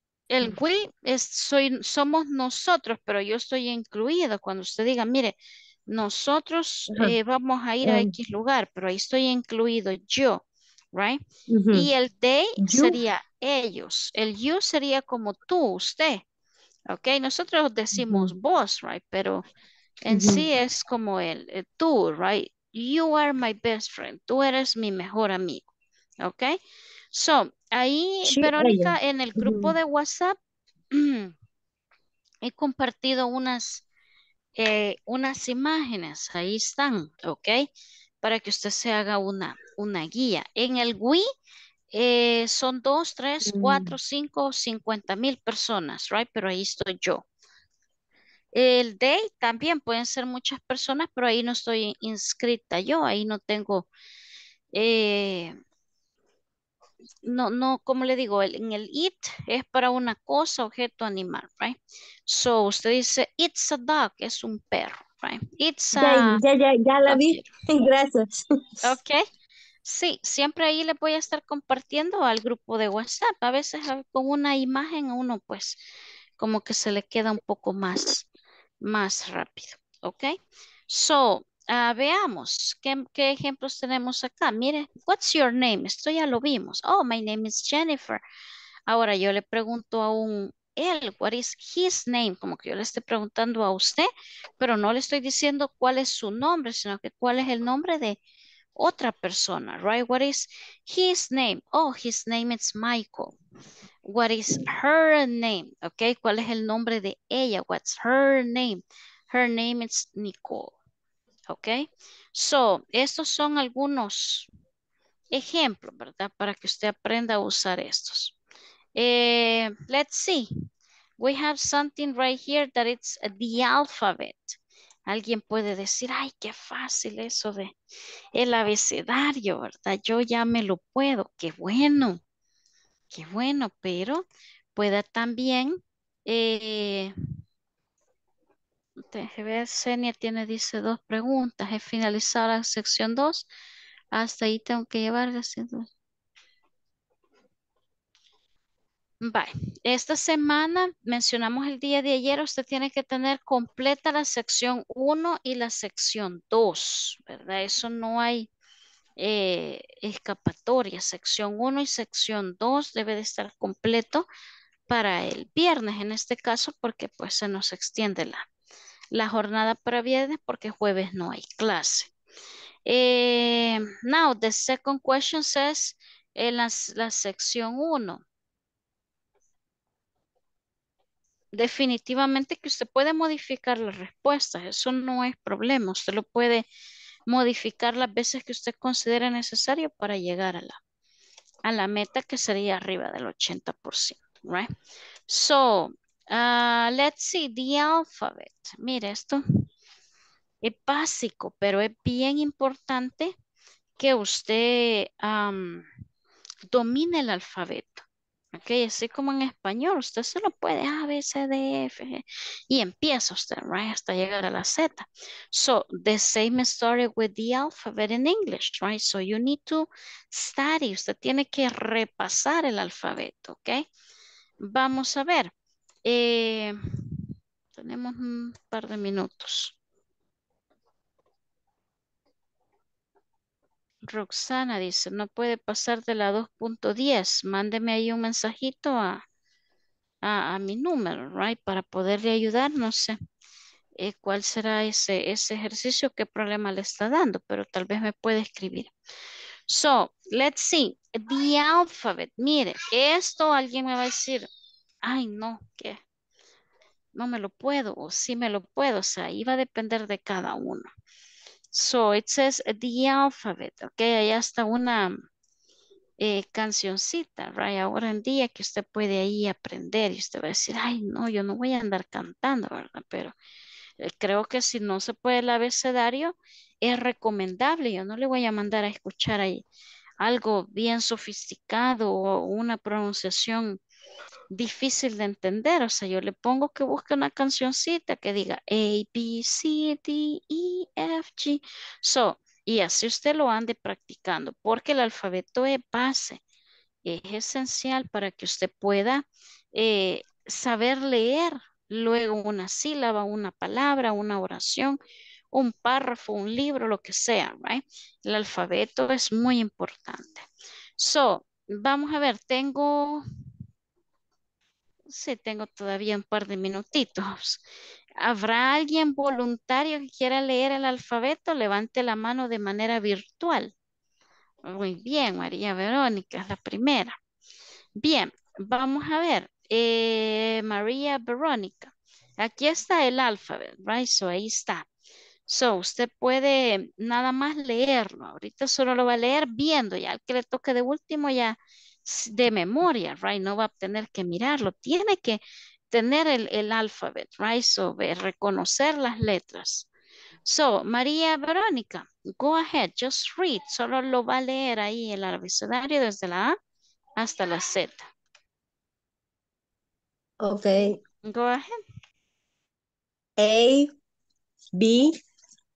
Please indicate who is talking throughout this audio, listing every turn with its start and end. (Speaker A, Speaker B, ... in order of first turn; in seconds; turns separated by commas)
Speaker A: 0.3-5.3, Speaker A: 5.9-16.2, Speaker B: 7.8-8.1, Speaker B: 11.5-11.9, Speaker B: 12.6-13.0, Speaker A: 16.9-19.4, Speaker B: 17.9-18.3, Speaker A: 20.0-25.6, Speaker B: 20.1-20.4, Speaker A: 26.2-26.6, Speaker A: 27.1-30.4, Speaker B: 28.3-29.7, Speaker A: 30.9-31.3, Speaker A: 32.4-33.8, Speaker A: 34.5-37.7, Speaker A: 38.2-41.2, Speaker A: 41.9-47.2, Speaker B: 43.4-44.0, Speaker A: 48.5-53.9, Speaker A: 54.7-55.5, Speaker A: 57.2-66.4, Speaker B: 66.0-68.9, Speaker A: 67.1-67.5, Speaker A: 68.8-69.2, Speaker A: 69.8-75.8, Speaker A: 76.4-78.3, Speaker A: 78.8-80.4, Speaker A: 80.9-88.2, Speaker A: 88.9-98.2, Speaker A: 98.8-103.3, Speaker A: 104.0-110.7, Speaker A: 111.5-114.5, Speaker A: 115.3-118.3, Speaker A: 119.0-120.5, Speaker A: 121.2-127.7, Speaker A: 128.3-132.2, Speaker A: 133.1-137.1, Speaker A: 139.0-143.5, Speaker A: 144.1-145.9, Speaker A: 149.2-158.5, Speaker A: 159.2-164.3, Speaker A: 164.9-168.4, Speaker A: 169.1-172.1, Speaker A: 172.8-178.2, Speaker A: 181.5-186.6, Speaker A: 187.3-190.8, Speaker A: 191.6-194.7, Speaker A: 195.3-199.4, Speaker A: 200.6-203.3, Speaker A: 204.0-205.9, Speaker A: 206.7-223.8, Speaker A: 224.6-225.5, Speaker A: 226.0-226.7, Speaker A: 227.7-229.7, Speaker A: 234.1-239.2, Speaker A: 240.2-243.2, Speaker A: 244.0-248.9, Speaker A: 249.7-254.5, Speaker A: 255.0-256.0, Speaker A: 257.1-260.9, Speaker A: 261.7-265.1, Speaker A: 266.2-273.3, Speaker A: 274.0-279.6, Speaker A: 280.2-283.8, Speaker A: 284.5-296.4, Speaker A: 297.0-305.0, Speaker A: 305.5-310.4, Speaker A: 311.0-313.2, Speaker A: 315.1-317.6, Speaker A: 318.2-323.7, Speaker A: 324.6-327.1, Speaker A: 328.0-334.9, Speaker A: 335.5-349.9, Speaker A: 350.4-356.6, Speaker A: 357.2-358.0, Speaker B: 360.4-361.0, Speaker A: 361.2-361.8, Speaker B: 363.4-363.9, Speaker B: 364.7-365.1